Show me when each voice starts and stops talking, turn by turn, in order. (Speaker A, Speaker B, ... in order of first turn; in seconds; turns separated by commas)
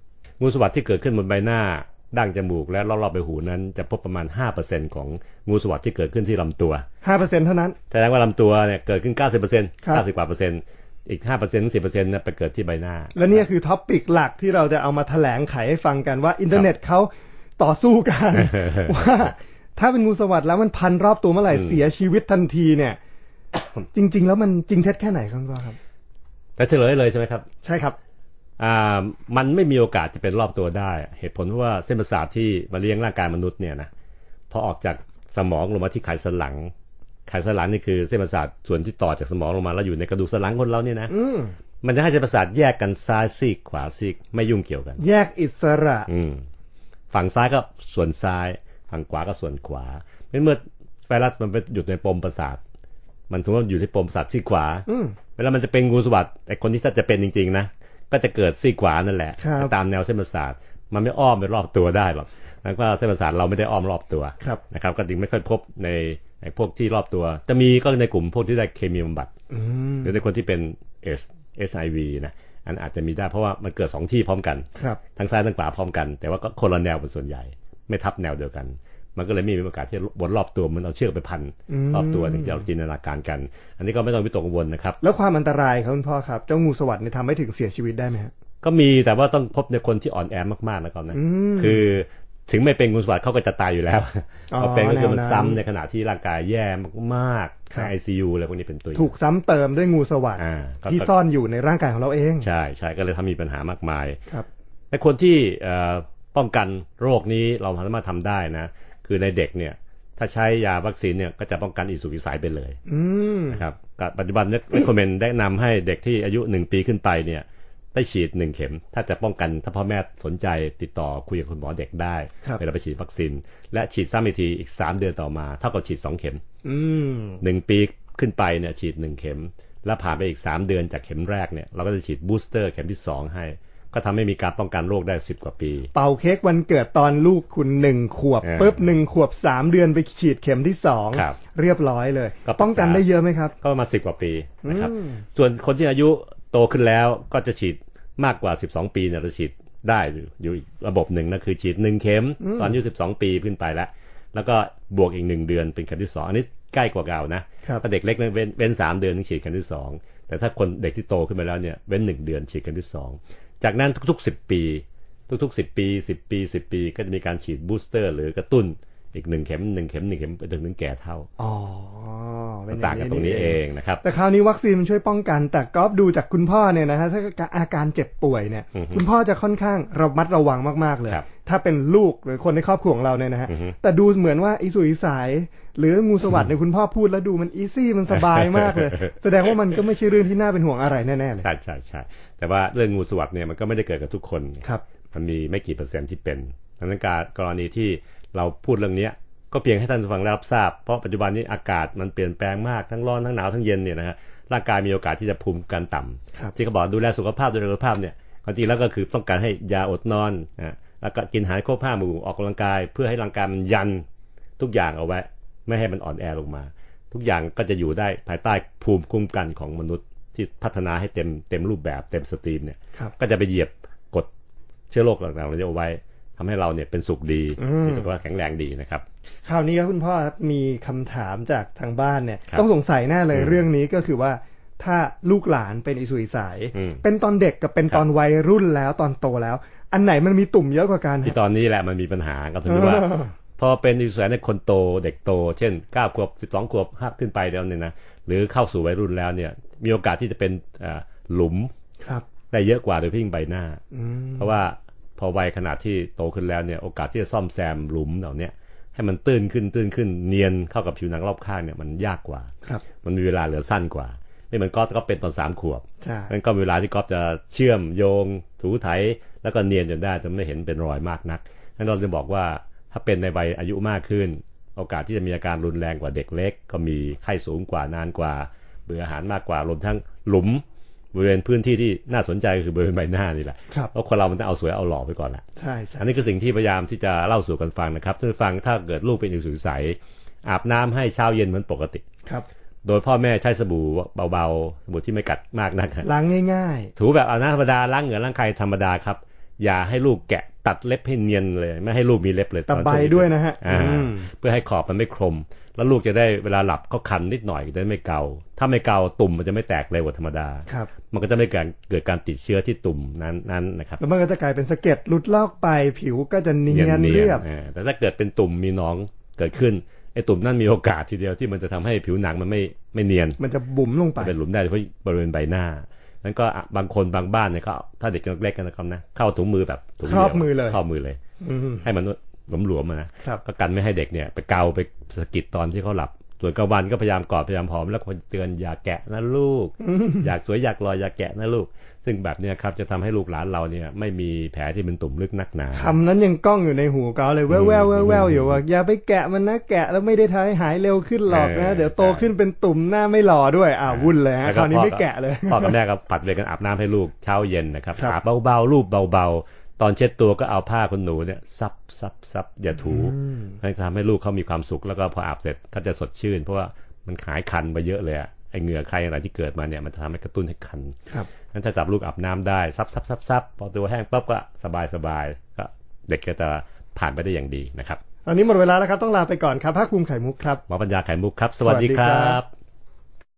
Speaker A: 0.4-6.8, Speaker B: 7.0-7.8, Speaker A: 7.9-13.2, Speaker B: 13.1-23.0, Speaker B: 23.9-25.8, Speaker A: 26.6-27.4, Speaker B: 27.6-27.9, Speaker A: 28.6-33.9, Speaker A: 34.5-36.7, Speaker A: 37.3-41.1, Speaker B: 41.1-41.5, Speaker A: 41.8-45.0, Speaker B: 45.0-46.1, Speaker A: 46.1-46.4, Speaker A: 47.1-52.6, Speaker A: 53.3-69.3, Speaker B: 54.9-55.2, Speaker B: 59.4-59.7, Speaker B: 69.5-70.2, Speaker A: 70.0-85.0, Speaker B: 81.7-82.6, Speaker B: 85.0-88.3, Speaker A: 88.6-99.1, Speaker B: 91.1-91.8, Speaker B: 94.5-95.6, Speaker B: 99.0-102.5, Speaker A: 100.3-101.1, Speaker A: 102.4-104.2, Speaker A: 104.9-112.8, Speaker B: 112.9-113.6, Speaker A: 113.5-126.4, Speaker B: 126.6-127.4, Speaker A: 127.4-135.9, Speaker B: 135.9-143.5, Speaker A: 138.4-138.9, Speaker A: 141.1-141.4, Speaker A: 142.4-143.1, Speaker A: 143.6-171.3, Speaker B: 144.6-145.2, Speaker B: 152.4-152.8, Speaker B: 171.4-191.5, Speaker A: 172.7-174.0, Speaker A: 178.7-179.0, Speaker A: 183.5-183.8, Speaker A: 188.2-189.1, Speaker A: 191.4-214.0, Speaker A: 214.6-224.3, Speaker A: 224.9-229.0, Speaker B: 227.6-228.1, Speaker B: 229.4-241.4, Speaker A: 233.3-233.7, Speaker A: 236.7-237.0, Speaker A: 241.2-251.7, Speaker B: 242.7-243.3, Speaker A: 252.5-253.8, Speaker B: 253.9-254.5, Speaker A: 254.3-262.5, Speaker A: 263.0-280.6, Speaker B: 266.0-266.3, Speaker A: 281.1-285.4, Speaker B: 285.6-286.0, Speaker A: 286.0-292.0, Speaker A: 292.8-296.1, Speaker B: 296.0-296.9, Speaker A: 296.9-314.0, Speaker B: 302.7-304.3, Speaker B: 314.0-317.4, Speaker A: 316.7-323.4, Speaker B: 323.4-324.3, Speaker A: 324.2-331.2, Speaker B: 330.0-330.8, Speaker B: 331.4-331.9, Speaker A: 331.8-345.9, Speaker B: 339.8-340.3, Speaker B: 345.7-355.8, Speaker A: 347.5-348.6, Speaker A: 351.3-352.3, Speaker A: 353.9-370.9, Speaker B: 362.8-363.6, Speaker A: 371.5-378.0, Speaker B: 378.2-380.6, Speaker A: 380.7-382.5, Speaker B: 381.6-382.4